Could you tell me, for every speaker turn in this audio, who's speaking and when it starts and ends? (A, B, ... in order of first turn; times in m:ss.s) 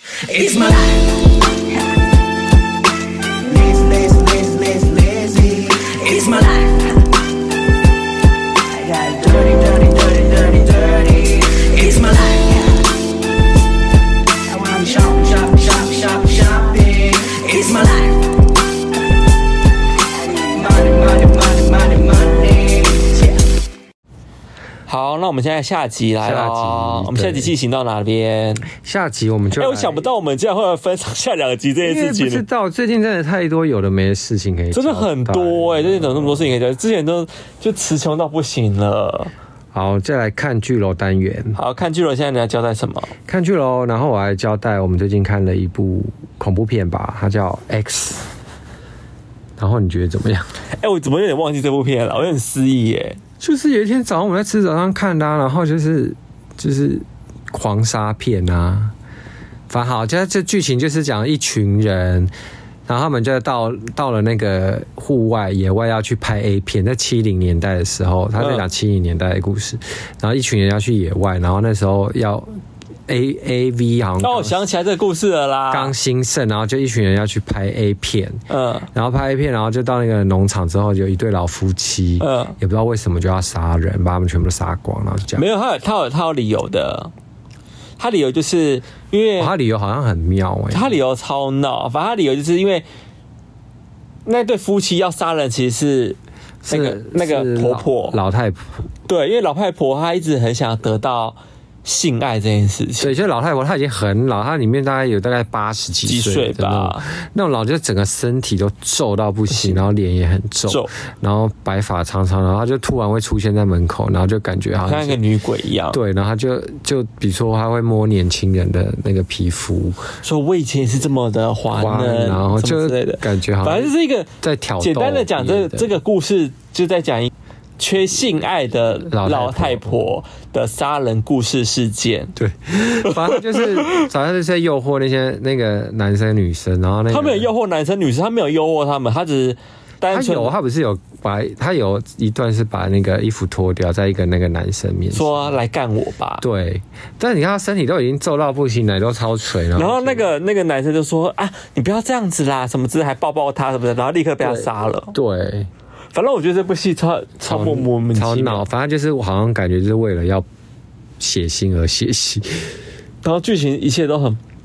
0:00.2-0:01.4 A
0:03.4-0:07.0 A
0:08.7-0:12.9 A
0:14.4-0:18.3 A
0:20.2-0:23.4 A
0:24.9-0:28.7 B
0:26.2-0:27.5 C
0:28.8-0:30.0 C
0:29.6-0:32.4 B
0:31.8-0:36.5 C
0:34.7-0:39.3 B
0:39.7-0:41.6 C
0:41.5-0:43.1 B
0:43.3-0:48.3 C
0:49.6-0:50.5 C
0:50.8-0:53.2 B
0:53.4-0:58.9 C
0:59.7-1:02.3 C
1:02.9-1:14.6 C
1:08.4-1:08.6 B
1:14.2-1:15.9 B
1:15.7-1:25.4 C
1:18.5-1:18.9 B
1:22.2-1:22.6 B
1:25.3-1:27.1 B
1:28.0-1:29.5 B
1:29.4-1:31.0 C
1:30.7-1:32.8 B
1:34.2-1:36.2 B
1:36.6-1:38.9 C
1:36.7-1:38.2 B
1:39.1-1:43.1 B
1:43.0-1:55.2 C
1:46.0-1:47.1 B
1:49.5-1:49.8 B
1:50.7-1:50.9 B
1:54.8-1:56.0 B
1:55.9-2:00.1 C
2:00.2-2:12.3 B
2:01.8-2:05.9 C
2:09.1-2:10.1 C
2:12.4-2:17.5 C
2:13.0-2:14.1 B
2:17.1-2:20.5 B
2:20.1-2:25.6 C
2:25.1-2:26.4 B
2:26.4-2:30.3 C
2:29.7-2:35.1 B
2:34.4-2:35.7 C
2:36.1-2:38.6 B
2:37.5-2:40.5 C
2:41.2-2:42.7 C
2:43.2-2:44.4 B